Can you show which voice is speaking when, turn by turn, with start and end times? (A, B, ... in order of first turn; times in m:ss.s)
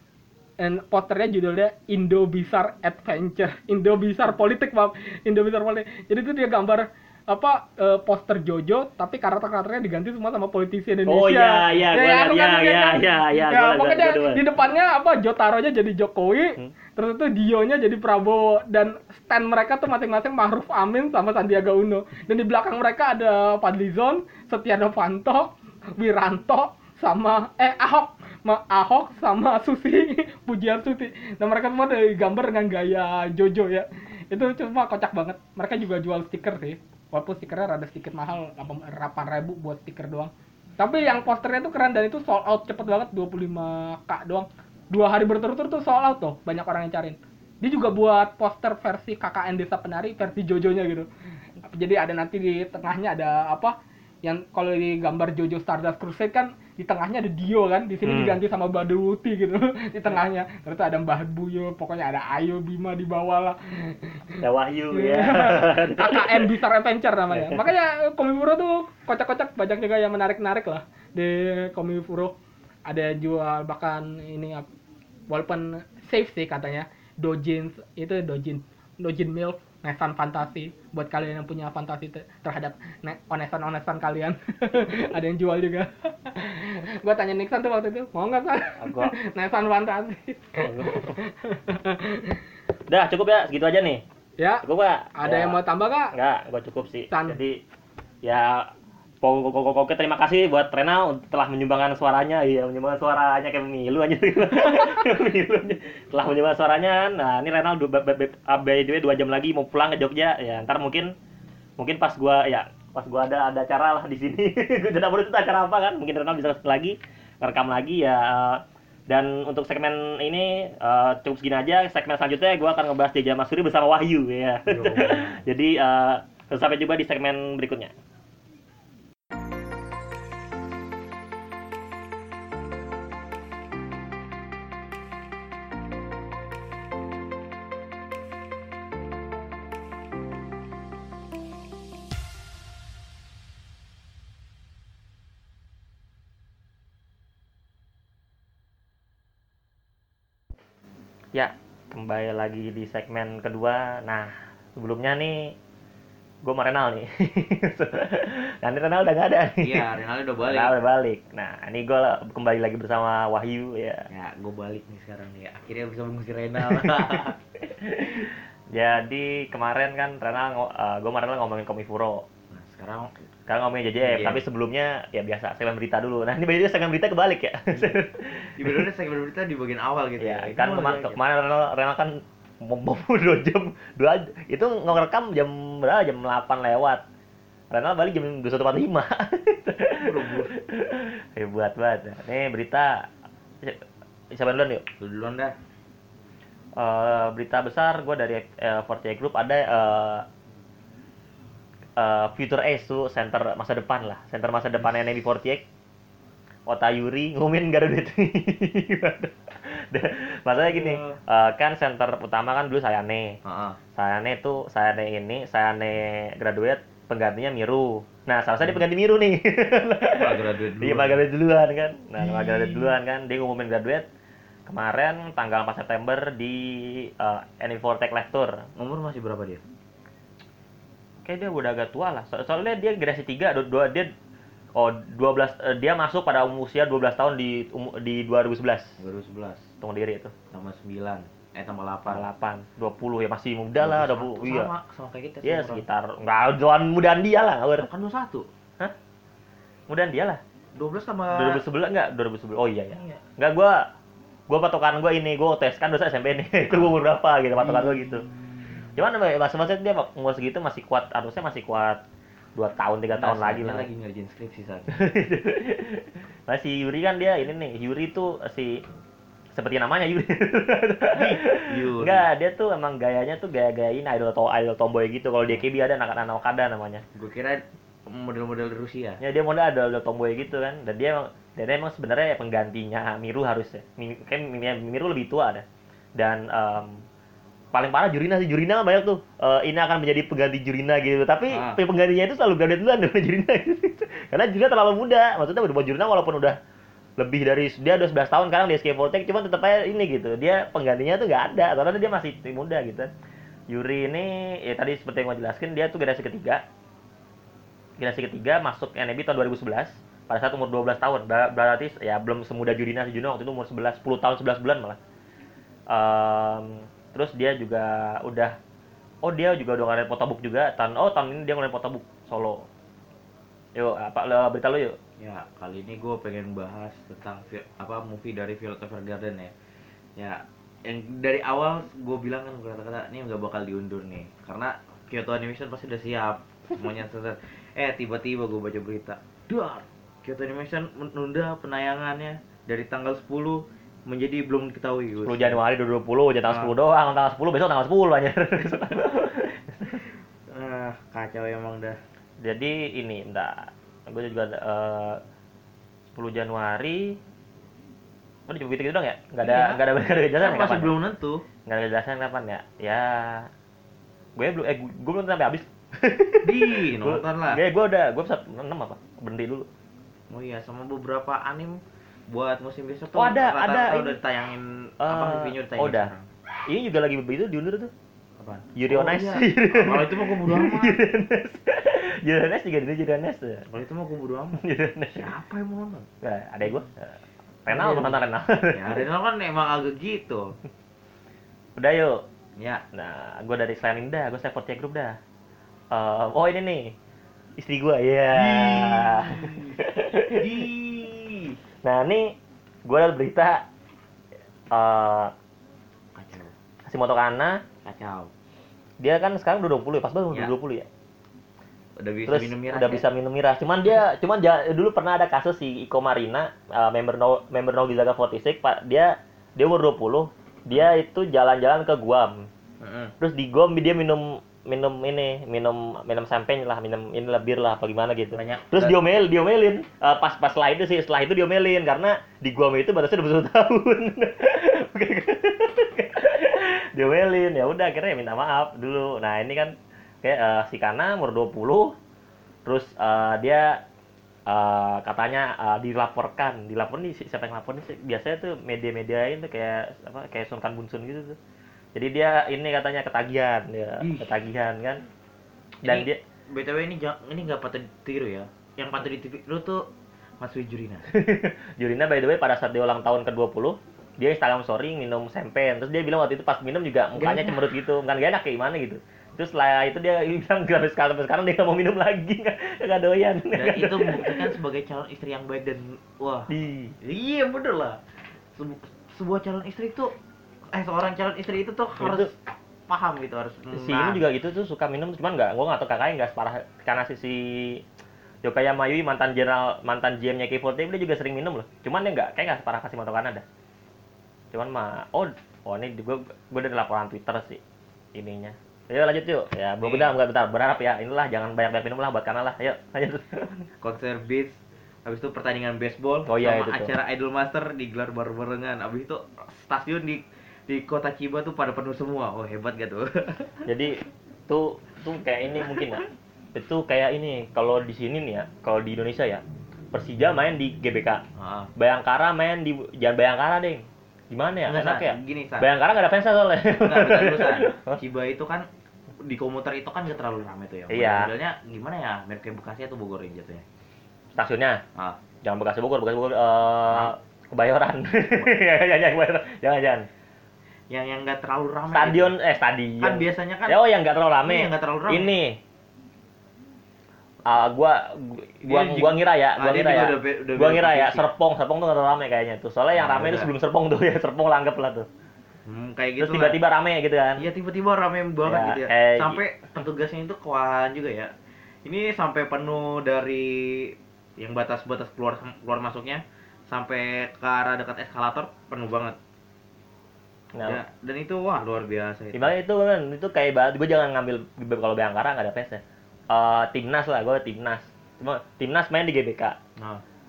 0:00.6-0:51.1 A
0:11.0-0:14.4 B
0:51.6-1:04.4 A
0:58.0-0:58.4 B
1:04.4-1:06.5 B
1:04.9-1:12.3 A
1:07.3-1:07.6 B
1:12.9-1:14.6 A
1:15.3-1:32.4 A
1:28.8-1:29.1 B
1:30.6-1:31.2 B
1:32.9-1:34.0 B
1:34.4-1:34.6 A
1:34.6-1:35.6 B
1:35.2-1:36.1 A
1:36.1-1:37.6 B
1:37.1-1:37.4 A
1:38.2-1:38.7 B
1:39.2-1:51.1 B
1:51.8-2:07.9 B
2:04.7-2:05.4 C
2:31.3-2:35.6 B
2:36.4-2:39.9 B
2:39.6-2:40.7 C
2:40.4-2:44.1 B
2:44.1-2:47.4 C
2:46.6-2:52.2 B
2:52.5-2:53.1 C
2:53.5-2:58.9 B
2:54.0-2:54.4 C
2:58.6-3:01.2 C
3:00.2-3:07.0 B
3:07.7-3:13.0 B
3:10.0-3:10.5 C
3:13.6-3:14.8 B
3:15.0-3:15.5 C
3:16.8-3:20.2 B
3:22.0-3:25.6 B
3:26.7-3:33.4 B
3:30.7-3:31.2 C
3:33.4-3:33.8 C
3:34.0-3:44.0 B
3:40.2-3:41.2 C
3:42.2-3:42.9 C
3:44.7-3:48.6 B
3:48.8-3:49.6 C
3:51.2-3:54.1 B
3:54.8-3:59.0 B
3:59.0-3:59.7 C
3:59.8-4:00.3 B
4:00.5-4:02.2 C
4:02.1-4:04.7 B
4:03.8-4:05.8 C
4:05.4-4:07.9 B
4:07.8-4:08.5 C
4:09.9-4:10.4 B
4:10.8-4:11.6 C
4:11.3-4:13.8 B
4:14.5-4:18.2 B
4:17.6-4:19.0 C
4:18.9-4:22.0 B
4:22.6-4:23.9 B
4:23.1-4:25.0 C
4:24.9-4:28.8 B
4:29.5-4:37.0 B
4:31.1-4:32.2 C
4:37.1-4:39.2 C
4:39.2-4:45.6 B
4:46.2-4:47.0 B
4:47.7-4:56.6 B
4:51.5-4:51.8 C
4:57.2-5:03.1 B
5:03.7-5:06.6 B
5:08.0-5:15.0 B
5:15.9-5:18.5 B
5:19.2-5:22.7 B
5:23.7-5:25.0 B
5:25.2-5:29.5 C
5:30.2-5:45.6 C
5:45.2-5:50.0 B
5:50.5-5:52.0 C
5:52.4-5:55.2 B
5:56.1-5:57.2 B
5:58.5-6:00.9 B
5:59.4-5:59.8 C
6:00.4-6:01.4 C
6:01.6-6:03.5 B
6:04.4-6:09.7 B
6:06.4-6:07.6 C
6:10.3-6:16.3 C
6:13.1-6:14.2 B
6:15.0-6:16.1 B
6:16.7-6:17.9 B
6:18.4-6:21.0 C
6:18.7-6:23.6 B
6:23.7-6:24.6 C
6:24.6-6:25.3 B
6:25.1-6:26.1 C
6:26.2-6:29.0 B
6:27.7-6:30.6 C
6:31.8-6:32.2 B
6:32.6-6:32.8 C
6:32.9-6:35.2 B
6:35.9-6:36.9 B
6:37.6-6:40.6 B
6:38.3-6:41.6 C
6:41.8-6:43.6 B
6:44.7-6:45.3 B
6:46.1-6:46.5 C
6:46.9-6:47.6 B
6:47.8-6:48.3 C
6:49.0-6:50.9 B
6:52.0-6:53.0 C
6:52.3-7:02.5 B
7:02.8-7:03.1 C
7:03.2-7:21.9 B
7:08.3-7:09.2 C
7:22.6-7:23.8 B
7:24.5-7:31.4 B
7:31.9-7:35.0 B
7:34.0-7:34.3 C
7:35.8-7:39.8 C
7:35.8-7:36.2 B
7:40.4-7:41.1 C
7:41.1-7:54.5 B
7:47.2-7:47.6 C
7:53.5-7:58.0 C
7:56.5-7:56.9 B
7:58.6-8:00.1 C
8:00.7-8:02.3 C
8:02.0-8:02.3 B
8:02.9-8:04.2 C
8:03.7-8:07.8 B
8:08.4-8:13.4 B
8:14.5-8:17.6 B
8:18.1-8:23.7 B
8:19.8-8:20.1 C
8:23.8-8:33.5 C
8:26.2-8:26.9 B
8:33.6-8:33.9 B
8:34.5-8:39.4 B
8:39.9-8:41.2 B
8:41.4-8:41.7 C
8:41.8-8:48.0 B
8:44.7-8:45.7 C
8:46.8-8:48.6 C
8:49.2-8:53.6 C
8:50.9-8:51.3 B
8:54.3-8:54.8 B
8:55.4-9:00.1 B
9:00.9-9:02.3 C
9:01.9-9:05.6 B
9:03.0-9:03.8 C
9:04.4-9:05.3 C
9:07.4-9:15.1 B
9:08.6-9:11.2 C
9:12.9-9:13.5 C
9:15.6-9:16.6 C
9:16.2-9:17.5 B
9:17.4-9:21.3 C
9:18.4-9:19.4 B
9:21.8-9:29.2 C
9:30.5-9:30.8 B
9:30.6-9:32.5 C
9:32.3-9:39.6 B
9:39.8-9:40.0 C